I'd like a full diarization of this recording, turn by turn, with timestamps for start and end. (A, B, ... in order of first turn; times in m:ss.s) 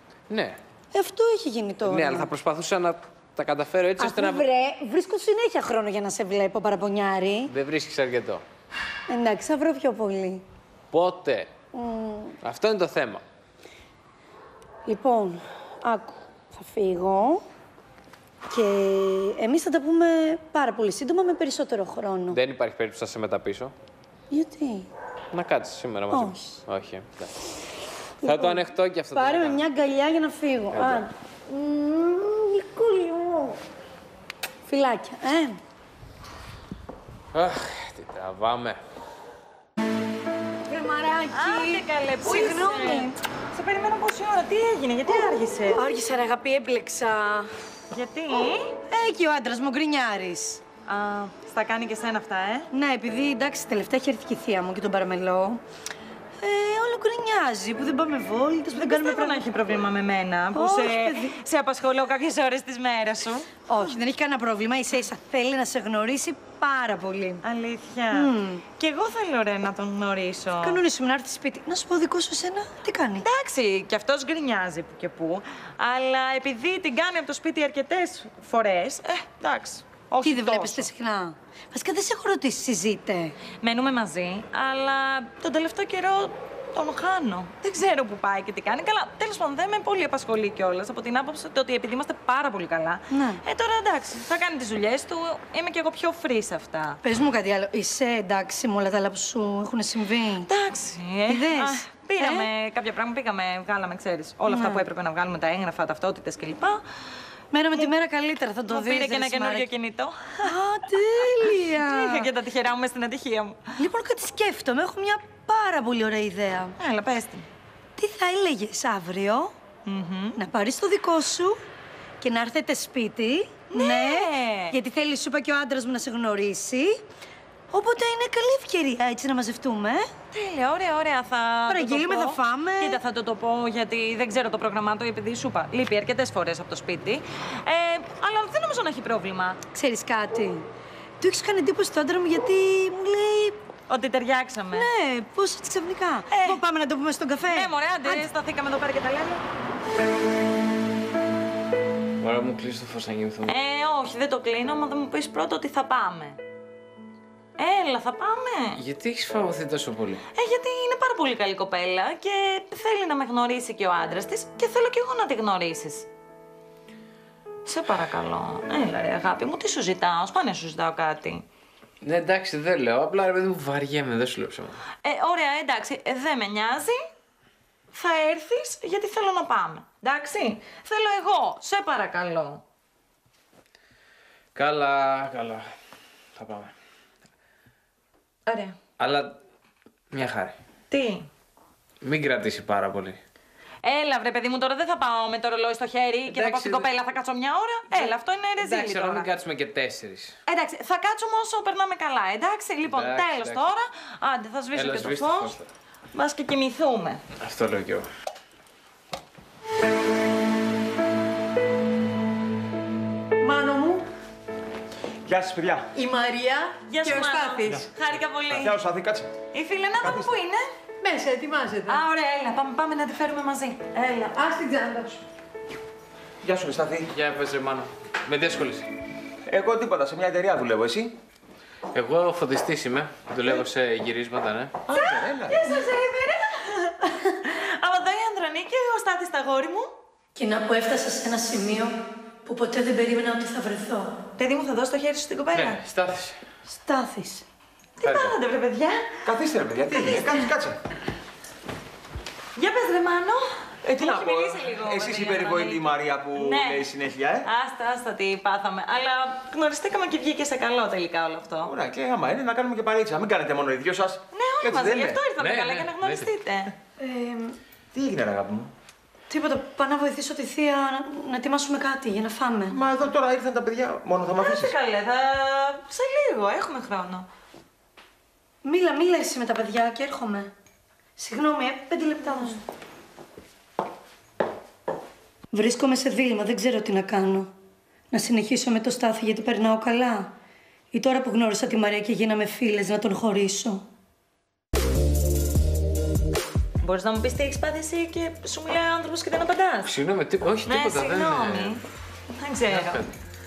0:00.3-0:00.6 A
0:00.9-0:02.3 B
0:01.8-0:04.4 A
0:04.0-0:07.5 B
0:07.5-0:08.4 A
0:09.1-0:10.4 B
0:10.9-0:11.5 A
0:11.7-0:12.4 B
0:12.4-0:13.2 A
0:14.8-0:17.4 B
0:18.5-0:22.4 B
0:22.3-0:23.7 A
0:24.3-0:24.9 B
0:25.3-0:27.3 A
0:26.1-0:26.6 B
0:28.2-0:29.6 A
0:28.2-0:33.6 B
0:30.7-0:31.0 A
0:34.7-0:35.6 B
0:37.3-0:38.8 A
0:40.7-0:43.2 B
0:41.3-0:45.8 C
0:45.7-0:47.5 B
0:47.9-0:48.7 C
0:48.9-0:50.6 B
0:50.8-0:52.7 C
0:52.7-0:55.6 B
0:56.4-0:59.4 B
0:58.8-1:03.5 C
1:00.5-1:01.4 B
1:03.7-1:07.4 B
1:07.4-1:10.8 C
1:08.1-1:08.6 B
1:10.6-1:13.3 B
1:13.2-1:20.9 C
1:20.2-1:23.4 B
1:23.6-1:37.0 C
1:33.1-1:33.4 B
1:37.0-1:40.5 B
1:40.5-1:46.8 C
1:41.3-1:42.5 B
1:44.5-1:44.8 B
1:47.5-1:49.7 B
1:48.7-1:50.6 C
1:50.4-1:52.3 B
1:51.2-1:53.6 C
1:53.8-1:56.8 B
1:56.8-1:57.5 C
1:58.0-1:59.5 B
1:59.8-2:00.4 C
2:00.4-2:01.6 B
2:02.2-2:07.0 B
2:03.7-2:04.7 C
2:07.7-2:10.1 B
2:10.3-2:19.6 C
2:11.7-2:13.0 B
2:19.7-2:20.6 B
2:21.2-2:23.6 B
2:23.9-2:24.9 C
2:24.7-2:28.2 B
2:26.3-2:26.6 C
2:27.5-2:29.4 C
2:32.2-2:33.6 A
2:33.4-2:36.4 C
2:37.6-2:38.8 C
2:38.7-2:40.2 A
2:40.3-2:46.1 C
2:47.6-2:51.4 C
2:52.0-2:54.8 A
2:55.0-2:57.0 C
2:57.9-3:02.6 C
3:04.5-3:05.7 A
3:06.4-3:06.7 A
3:08.4-3:08.8 C
3:09.0-3:09.3 A
3:10.1-3:10.6 A
3:10.9-3:11.3 C
3:12.0-3:13.2 A
3:13.8-3:19.3 C
3:16.3-3:16.9 A
3:18.0-3:20.3 A
3:20.5-3:25.6 C
3:22.9-3:23.6 A
3:24.7-3:25.7 A
3:26.1-3:27.2 C
3:27.4-3:28.1 A
3:33.4-3:34.1 D
3:35.2-3:35.9 E
3:35.9-3:37.9 D
3:36.9-3:38.8 C
3:38.5-3:39.3 E
3:39.5-3:40.6 C
3:40.0-3:40.3 E
3:41.0-3:42.0 D
3:41.9-3:44.4 C
3:44.3-3:45.2 D
3:46.4-3:47.1 E
3:47.1-3:48.9 A
3:49.5-3:51.2 E
3:51.9-3:54.8 A
3:54.9-3:55.6 E
3:54.9-3:59.9 C
4:00.3-4:04.2 B
4:04.4-4:05.8 C
4:05.5-4:06.4 A
4:06.7-4:07.4 B
4:08.0-4:09.0 C
4:08.0-4:08.3 A
4:09.2-4:10.8 E
4:09.9-4:10.4 C
4:12.6-4:16.9 C
4:13.8-4:17.5 E
4:17.4-4:21.7 C
4:21.6-4:25.2 E
4:24.3-4:26.7 C
4:25.4-4:26.3 A
4:27.0-4:27.6 B
4:27.9-4:28.7 E
4:29.3-4:32.8 B
4:32.7-4:34.7 E
4:34.4-4:37.2 C
4:38.6-4:40.5 B
4:41.2-4:42.6 B
4:45.5-4:47.5 B
4:48.1-4:50.3 B
4:50.9-4:53.8 B
4:56.8-4:59.9 C
4:59.8-5:01.8 A
5:00.6-5:01.8 C
5:02.4-5:03.1 C
5:02.7-5:03.0 A